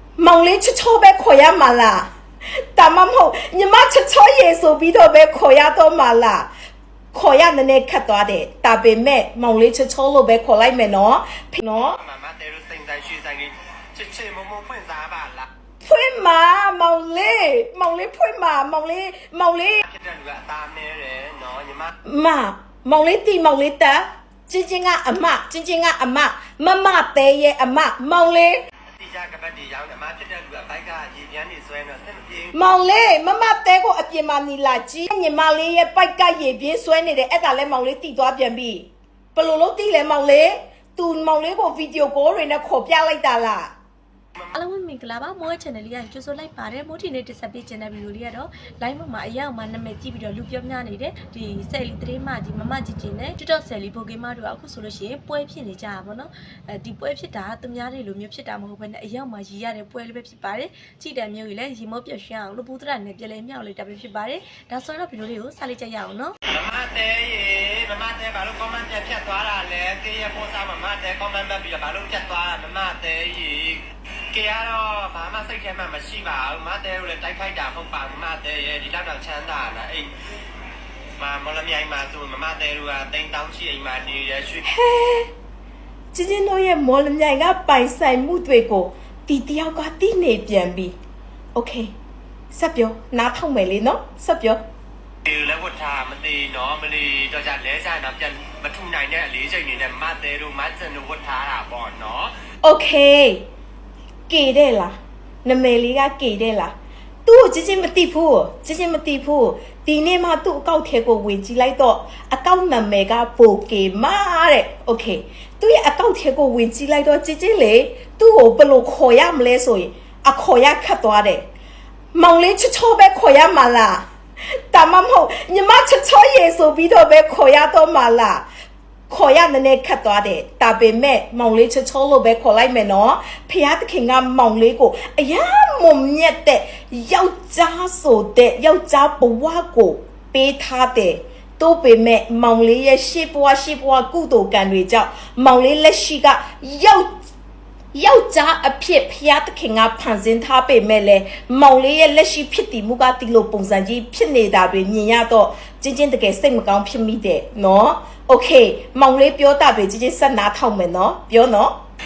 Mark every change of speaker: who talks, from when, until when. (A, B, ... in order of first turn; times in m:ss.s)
0:00.2-0:06.5 A
0:07.1-0:12.0 A
0:11.9-0:15.5 B
0:15.8-0:19.8 A
0:19.8-0:22.0 B
0:22.0-0:28.6 A
0:28.9-0:32.6 B
0:32.5-0:43.7 A
0:44.6-1:06.4 C
1:06.4-1:20.1 B
1:21.2-1:24.7 B
1:24.6-1:25.3 A
1:26.1-1:30.9 A
1:31.6-1:31.9 A
1:32.5-1:34.6 A
1:35.2-1:42.3 B
1:42.6-1:43.4 A
1:44.3-1:46.7 A
1:47.3-2:01.4 A
2:02.1-2:04.0 A
2:04.7-2:08.5 A
2:09.1-2:27.1 A
2:27.9-2:41.8 A